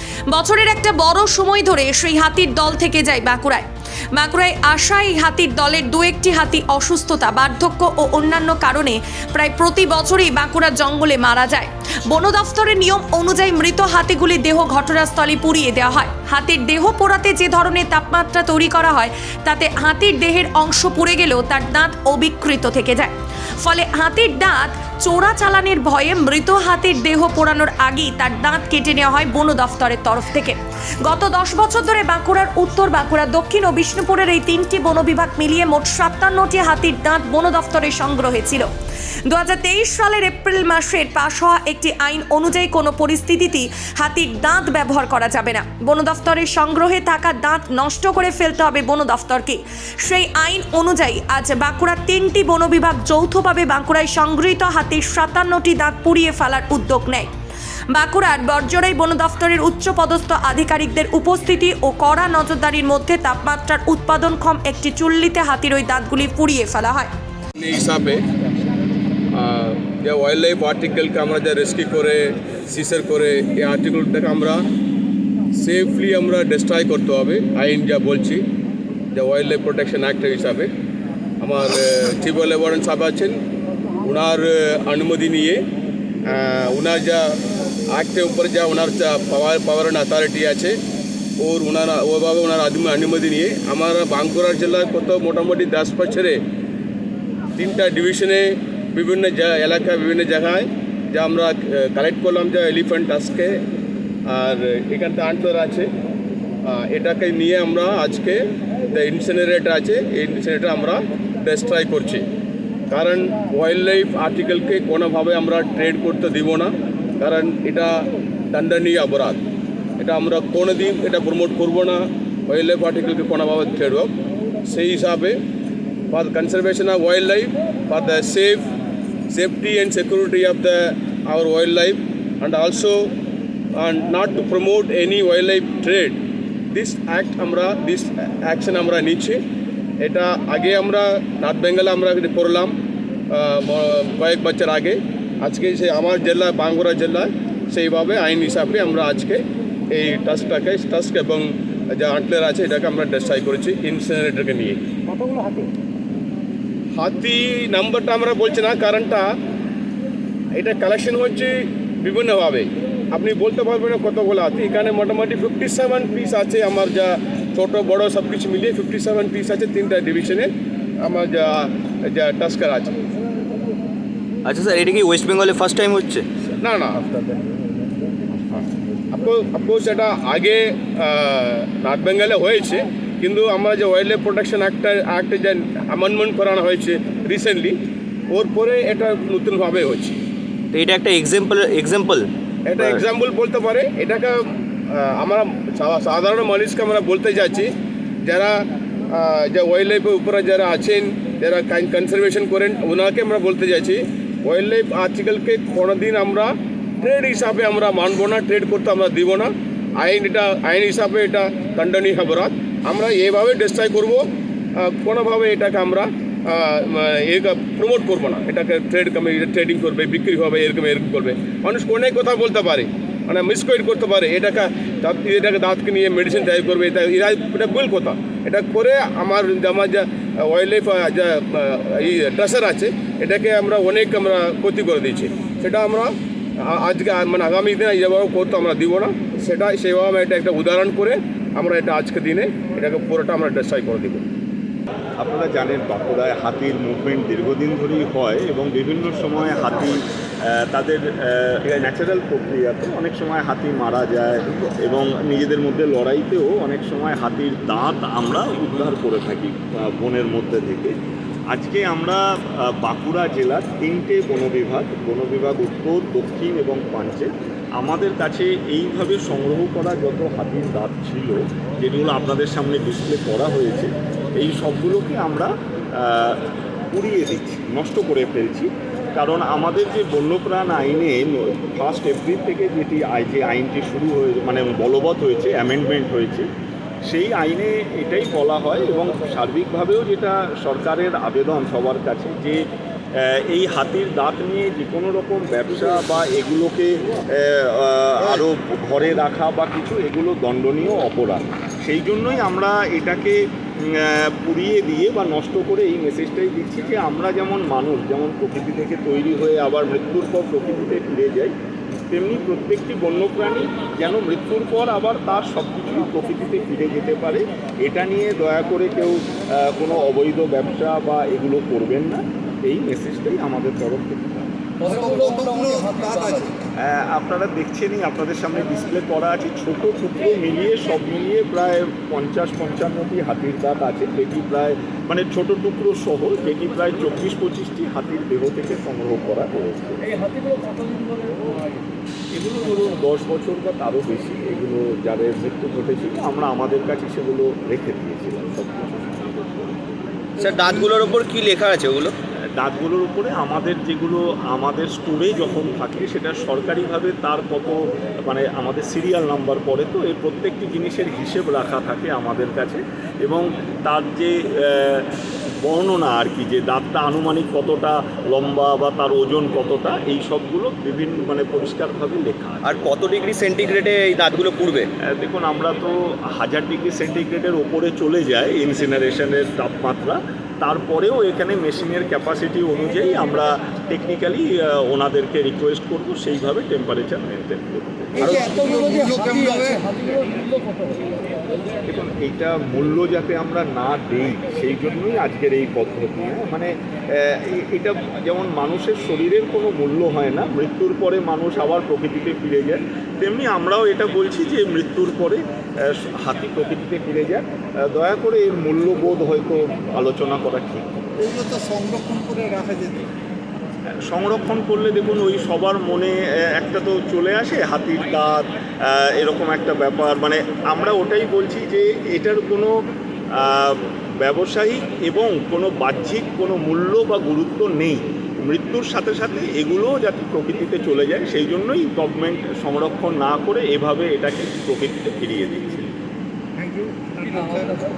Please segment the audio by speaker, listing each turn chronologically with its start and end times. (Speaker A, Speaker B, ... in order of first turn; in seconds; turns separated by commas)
Speaker A: 0.3-38.7, Speaker A: 39.3-57.3, Speaker A: 57.9-67.1, Speaker B: 67.6-68.2, Speaker B: 69.3-74.7, Speaker B: 75.5-78.4, Speaker B: 79.1-80.7, Speaker B: 81.4-83.4, Speaker B: 84.0-85.6, Speaker B: 86.3-87.4, Speaker B: 87.9-90.8, Speaker B: 91.4-96.4, Speaker B: 97.6-103.6, Speaker B: 104.3-105.9, Speaker B: 106.7-108.4, Speaker B: 108.9-112.3, Speaker B: 112.9-118.0, Speaker B: 118.5-119.4, Speaker B: 120.0-124.1, Speaker B: 124.7-125.4, Speaker B: 126.1-128.6, Speaker B: 129.3-133.1, Speaker B: 133.8-136.2, Speaker B: 136.7-139.4, Speaker B: 140.0-142.7, Speaker B: 143.3-154.8, Speaker B: 156.9-159.3, Speaker B: 160.6-170.5, Speaker B: 171.0-172.9, Speaker C: 174.5-176.3, Speaker B: 176.6-177.1, Speaker B: 179.1-187.8, Speaker B: 188.3-190.2, Speaker C: 190.7-192.3, Speaker B: 192.7-197.7, Speaker B: 198.2-198.6, Speaker B: 199.1-244.3, Speaker D: 245.2-260.9, Speaker D: 261.5-286.5, Speaker D: 287.1-292.6, Speaker D: 293.2-311.6, Speaker D: 312.1-324.6, Speaker E: 324.9-326.5, Speaker D: 326.8-340.0, Speaker D: 342.3-349.8, Speaker C: 350.4-352.1, Speaker D: 352.6-372.9, Speaker C: 372.7-374.9, Speaker D: 375.1-389.2, Speaker E: 388.8-389.8, Speaker D: 391.9-411.1, Speaker E: 411.2-413.1, Speaker D: 414.1-422.9, Speaker D: 423.4-435.9, Speaker E: 436.6-437.8